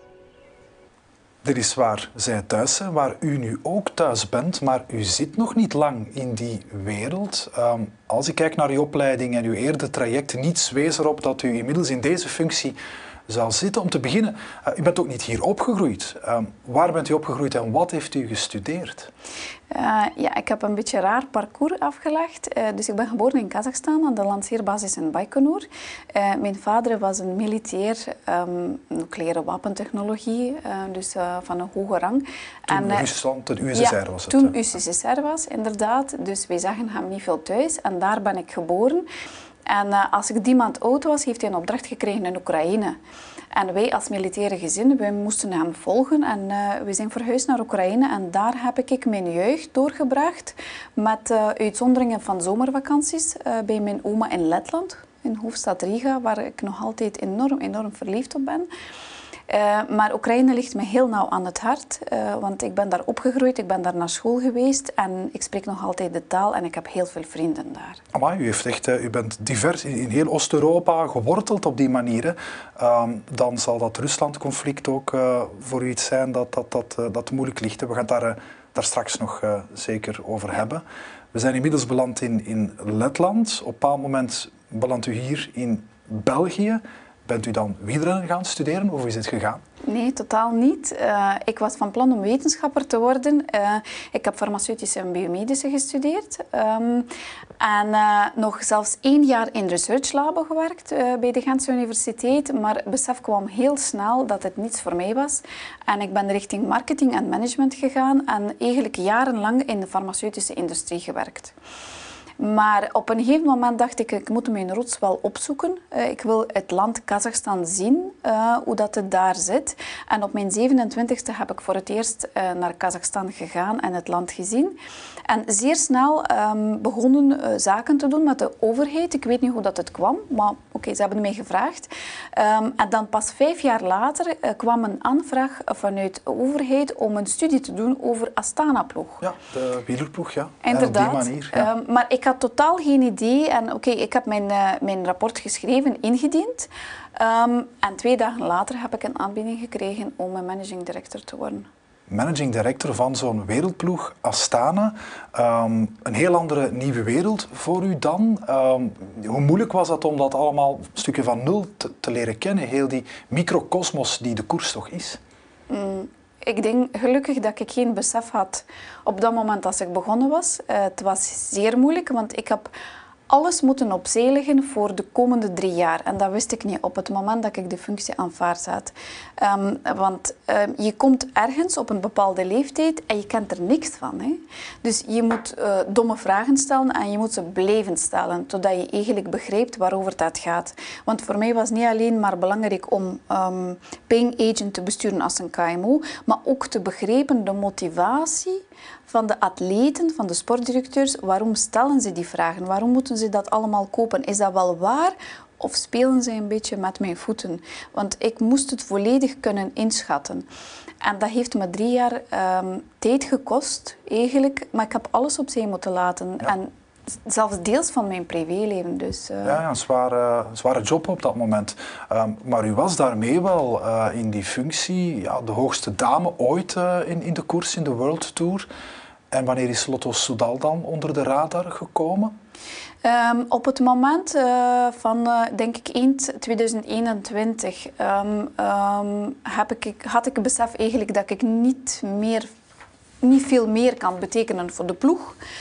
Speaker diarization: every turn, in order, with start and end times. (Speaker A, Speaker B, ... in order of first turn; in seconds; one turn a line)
Speaker A: 1.4-12.8
Speaker A: 13.3-19.1
Speaker B: 19.7-33.1
Speaker A: 32.7-34.5
Speaker B: 33.7-39.1
Speaker B: 39.7-43.0
Speaker B: 43.5-58.7
Speaker B: 59.5-68.0
Speaker A: 68.1-89.6
Speaker B: 89.8-97.1
Speaker B: 97.6-111.5
Speaker B: 112.4-124.8
Speaker B: 125.3-139.2
Speaker A: 139.2-141.7
Speaker B: 140.6-151.7
Speaker A: 152.1-165.2
Speaker B: 165.7-172.7
Speaker B: 173.3-210.4
Speaker B: 211.0-216.7
Speaker B: 217.2-219.6
Speaker A: 219.4-228.7
Speaker A: 229.3-232.3
Speaker B: 233.0-242.5
Speaker B: 243.2-245.4